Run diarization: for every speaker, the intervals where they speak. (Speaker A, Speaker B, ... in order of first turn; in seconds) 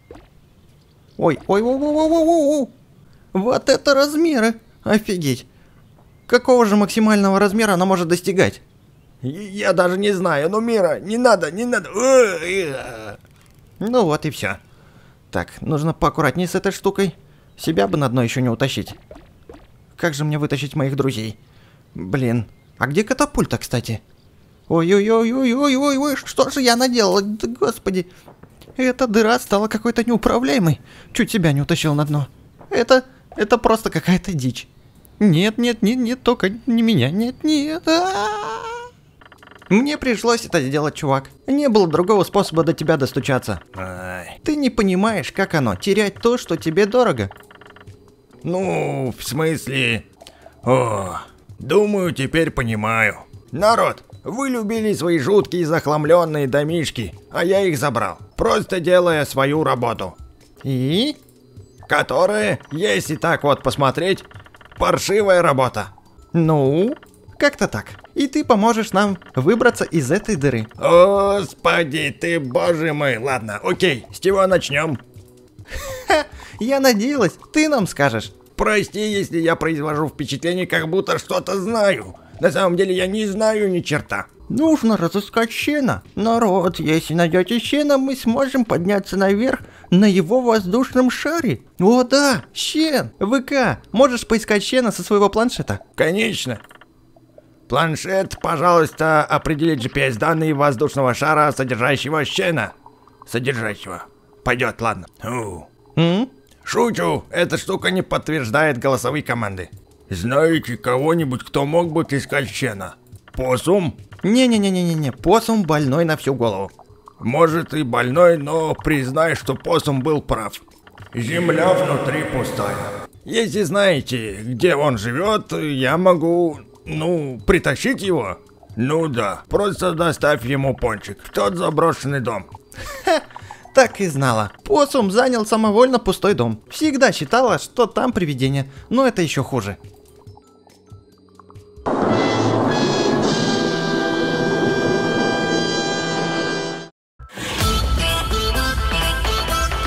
Speaker A: 1.2-2.7, 3.3-5.5, 6.3-8.6, 13.8-14.6, 15.3-19.0, 19.9-21.4, 21.9-24.0, 24.7-28.1, 28.8-38.9, 39.7-43.7, 44.4-47.3, 60.6-61.2, 66.3-70.8, 75.8-78.5, 84.5-95.9, 106.0-106.3, 114.2-116.7, 133.0-139.8
Speaker B: 9.2-13.2, 43.8-44.4, 48.4-50.0, 50.6-60.2, 61.9-64.3, 64.8-65.9, 70.8-75.0, 78.5-84.3, 96.0-96.6, 97.7-102.7, 103.3-105.7, 106.6-114.0, 117.2-132.5